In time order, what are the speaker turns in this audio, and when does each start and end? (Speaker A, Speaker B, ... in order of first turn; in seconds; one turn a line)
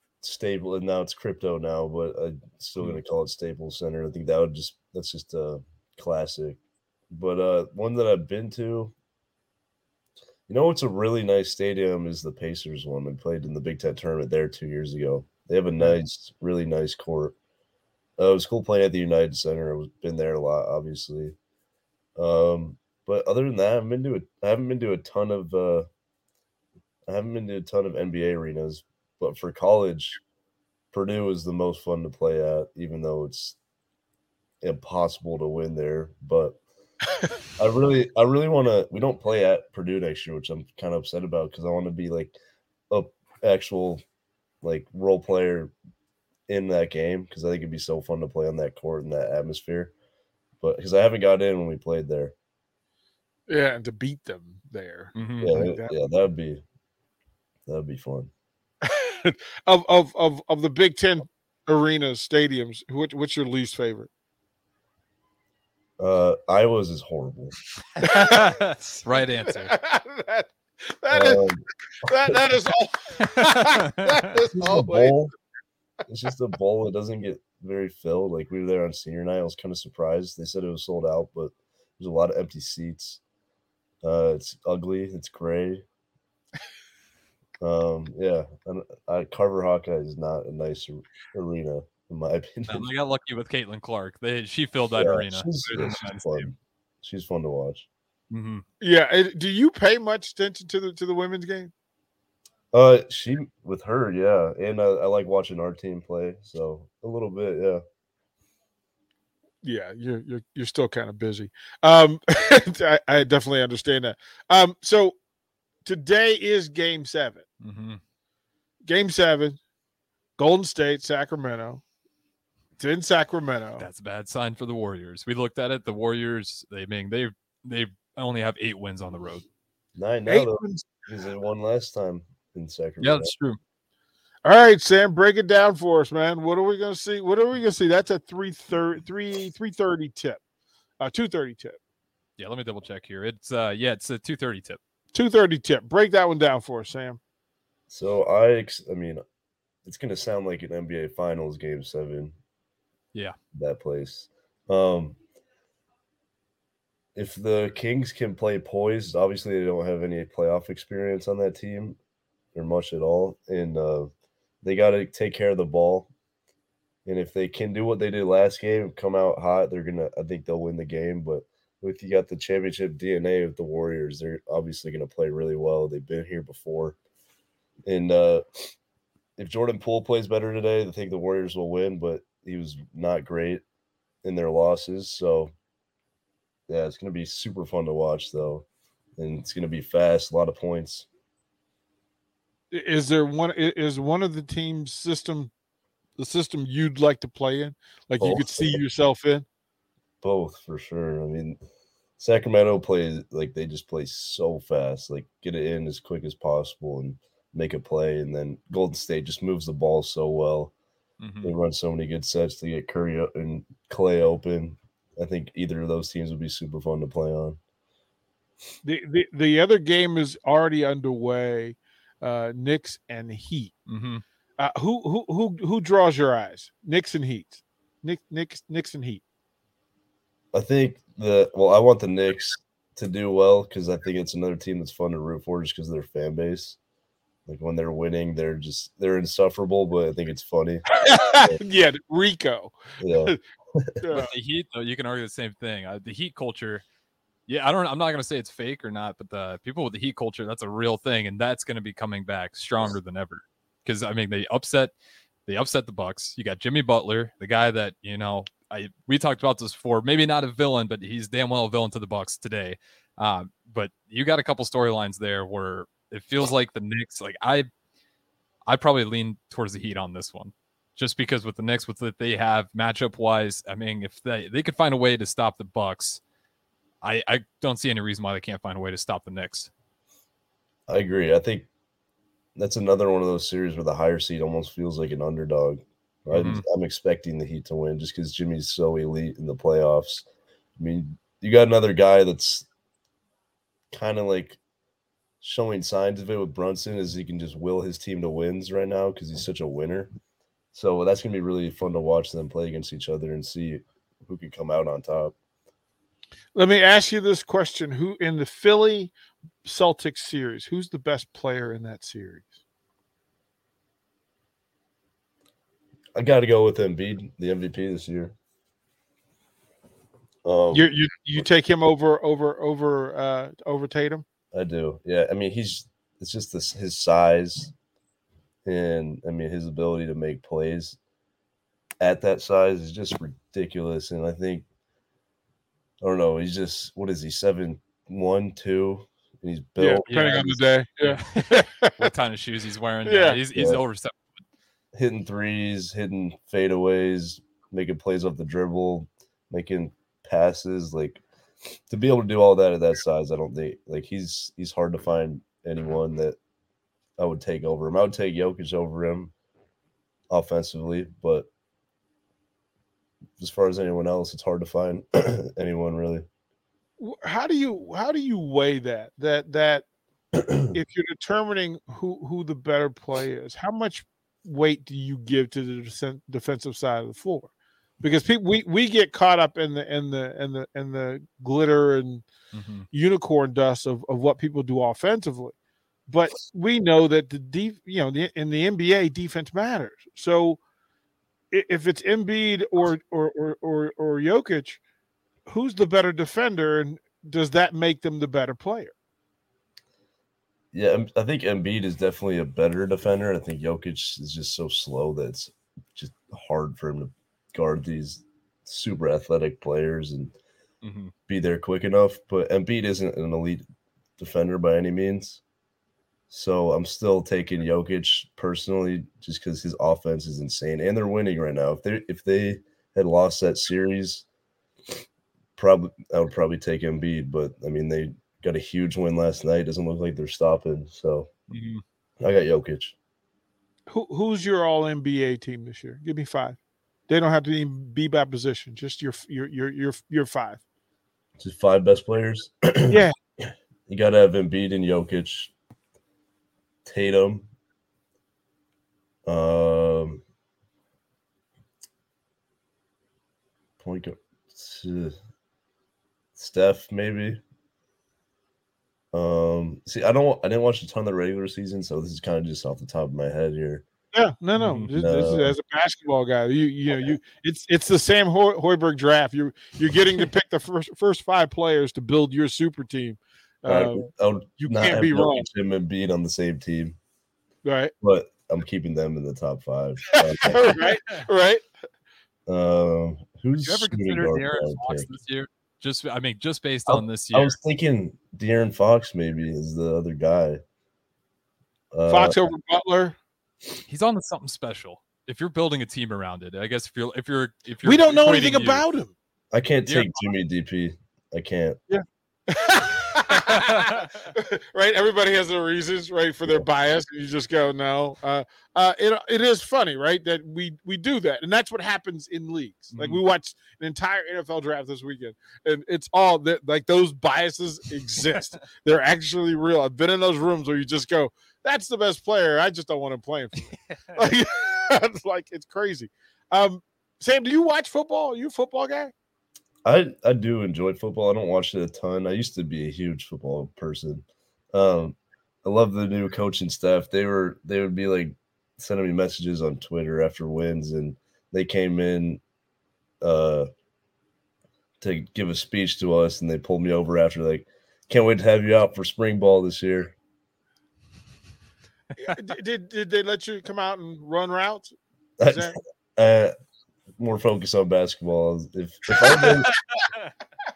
Speaker A: 0.2-6.6
Speaker A: 7.1-8.9
Speaker A: 10.5-17.3
Speaker A: 18.2-21.3
Speaker A: 22.2-25.9
Speaker A: 27.1-30.2
Speaker A: 30.9-33.6
Speaker A: 34.6-36.6
Speaker A: 37.6-42.3
Speaker A: 42.9-44.0
Speaker A: 44.6-45.7
Speaker A: 46.5-49.9
Speaker A: 50.6-52.3
Speaker B: 53.5-55.9
Speaker C: 55.1-55.5
Speaker A: 55.4-56.6
Speaker A: 57.7-58.3
Speaker B: 58.8-64.1
Speaker A: 66.0-67.5
Speaker C: 68.0-69.7
Speaker B: 68.0-68.5
Speaker B: 69.5-70.5
Speaker B: 71.0-71.4
Speaker A: 71.1-71.6
Speaker B: 72.0-75.3
Speaker C: 73.4-74.3
Speaker A: 74.5-75.3
Speaker A: 76.1-83.2
Speaker A: 84.0-85.8
Speaker A: 87.6-92.9
Speaker C: 92.7-96.5
Speaker A: 95.0-97.9
Speaker C: 98.3-98.6
Speaker B: 98.8-101.7
Speaker A: 102.7-107.8
Speaker B: 109.6-115.2
Speaker B: 115.8-117.4
Speaker C: 117.6-118.0
Speaker B: 118.8-119.6
Speaker B: 120.4-121.8
Speaker B: 122.8-123.9
Speaker C: 123.8-129.4
Speaker A: 129.9-133.3
Speaker B: 130.2-130.9
Speaker C: 133.0-133.6
Speaker B: 134.4-140.4
Speaker B: 141.0-141.8
Speaker C: 142.4-144.8
Speaker B: 145.1-147.2
Speaker A: 147.9-149.2
Speaker A: 149.8-152.3
Speaker A: 153.6-155.2
Speaker A: 157.1-162.0
Speaker A: 162.6-164.1
Speaker A: 164.6-166.1
Speaker A: 167.1-177.0
Speaker A: 177.9-178.7
Speaker A: 179.4-183.6
Speaker A: 184.2-185.5
Speaker A: 186.7-188.7
Speaker A: 189.2-191.1
Speaker B: 192.7-195.5
Speaker B: 196.2-199.4
Speaker A: 198.2-198.8
Speaker A: 200.2-201.6
Speaker A: 202.2-210.7
Speaker C: 211.2-211.5
Speaker A: 211.4-217.6
Speaker B: 218.8-223.7
Speaker C: 223.9-224.2
Speaker B: 224.6-229.2
Speaker A: 230.5-236.8
Speaker A: 237.5-241.6
Speaker B: 240.9-243.4
Speaker A: 243.0-244.0
Speaker B: 244.0-244.3
Speaker C: 244.1-246.8
Speaker C: 247.5-254.9
Speaker C: 255.5-267.7
Speaker C: 268.7-276.2
Speaker C: 277.0-279.7
Speaker A: 280.9-281.7
Speaker A: 282.6-290.2
Speaker C: 286.3-286.6
Speaker A: 290.8-292.7
Speaker A: 293.9-294.6
Speaker A: 295.4-300.1
Speaker A: 300.7-305.3
Speaker B: 306.5-312.6
Speaker A: 316.1-318.3
Speaker A: 320.4-321.4
Speaker B: 320.7-324.2
Speaker A: 324.5-327.7
Speaker A: 328.7-331.0
Speaker A: 332.0-334.6
Speaker A: 336.0-340.5
Speaker B: 339.8-342.1
Speaker C: 340.1-344.4
Speaker B: 343.1-343.4
Speaker A: 343.5-343.8
Speaker A: 344.9-351.2
Speaker A: 351.9-356.4
Speaker A: 357.2-359.3
Speaker A: 360.3-361.5
Speaker A: 363.4-366.2
Speaker B: 367.0-369.8
Speaker B: 370.7-382.3
Speaker C: 382.5-382.9
Speaker B: 382.9-385.5
Speaker B: 386.1-390.6
Speaker B: 391.5-394.8
Speaker B: 395.5-398.9
Speaker A: 400.7-410.3
Speaker C: 410.8-411.1
Speaker A: 411.3-413.6
Speaker A: 414.2-415.4
Speaker A: 416.3-424.2
Speaker A: 425.6-431.3
Speaker C: 431.5-431.8
Speaker A: 432.2-432.9
Speaker B: 433.9-436.6
Speaker B: 437.1-440.6
Speaker A: 441.4-445.5
Speaker B: 442.9-443.1
Speaker A: 446.9-447.5
Speaker A: 449.3-450.2
Speaker A: 453.8-455.1
Speaker A: 456.4-457.4
Speaker A: 459.1-463.8
Speaker B: 464.1-475.5
Speaker C: 464.6-464.9
Speaker A: 464.9-465.6
Speaker A: 473.6-476.9
Speaker B: 477.6-477.9
Speaker A: 478.0-480.8
Speaker B: 480.4-481.7
Speaker A: 482.5-485.1
Speaker C: 483.6-487.6
Speaker A: 486.9-490.6
Speaker A: 491.9-492.4
Speaker B: 492.1-493.2
Speaker C: 493.9-498.8
Speaker B: 497.8-499.1
Speaker A: 499.5-501.8
Speaker C: 499.9-500.3
Speaker B: 501.9-529.1
Speaker C: 503.4-504.1
Speaker C: 512.9-513.2
Speaker A: 529.9-542.4
Speaker A: 543.2-543.7
Speaker A: 545.0-550.1
Speaker B: 552.2-554.9
Speaker A: 555.4-556.5
Speaker B: 555.5-555.8
Speaker A: 557.2-559.7
Speaker C: 559.4-560.3